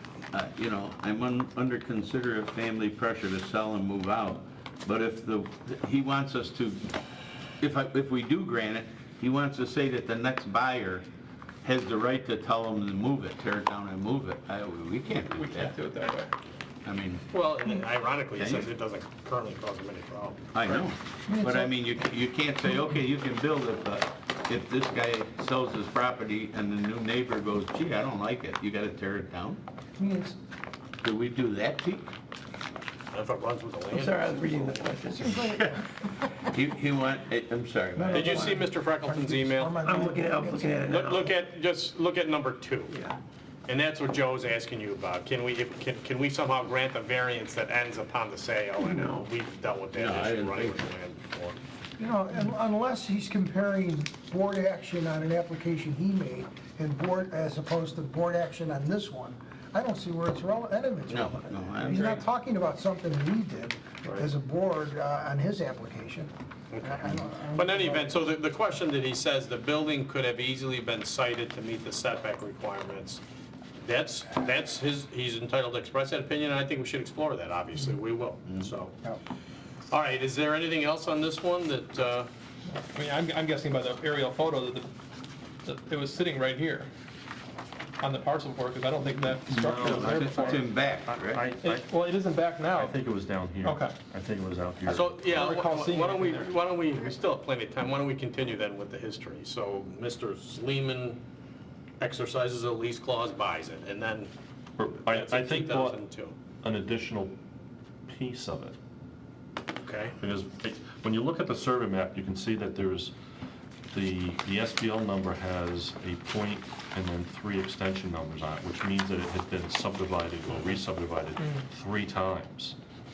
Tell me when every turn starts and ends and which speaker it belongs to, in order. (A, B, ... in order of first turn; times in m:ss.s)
0:00.3-0:06.8 A
0:07.6-0:11.0 A
0:11.6-0:15.7 A
0:15.1-0:16.3 B
0:16.8-0:17.2 A
0:17.3-0:20.8 C
0:18.4-0:18.7 A
0:20.5-0:29.6 A
0:21.3-0:21.7 D
0:30.0-0:30.4 D
0:31.0-0:32.1 A
0:33.1-0:34.8 C
0:33.9-0:35.6 E
0:35.1-0:36.1 D
0:36.5-0:38.6 A
0:38.0-0:40.7 D
0:38.1-0:39.9 C
0:39.8-0:41.3 E
0:40.8-0:43.0 C
0:43.7-0:51.6 C
0:48.8-0:49.3 E
0:49.9-0:50.8 A
0:52.0-1:08.2 D
1:01.1-1:02.2 A
1:06.7-1:13.2 C
1:13.8-1:18.9 C
1:19.9-1:22.3 C
1:22.9-1:24.9 B
1:25.6-1:26.9 B
1:28.0-1:30.6 B
1:29.5-1:31.9 F
1:29.8-1:31.5 A
1:31.6-1:33.0 B
1:32.7-1:35.5 F
1:33.6-1:33.9 B
1:34.8-1:41.2 C
1:35.3-1:36.5 B
1:42.0-1:44.3 C
1:44.8-1:46.0 F
1:45.0-1:46.3 C
1:46.6-1:47.4 F
1:48.1-1:48.8 F
1:49.8-1:50.1 C
1:50.2-1:53.1 F
1:53.9-2:02.8 F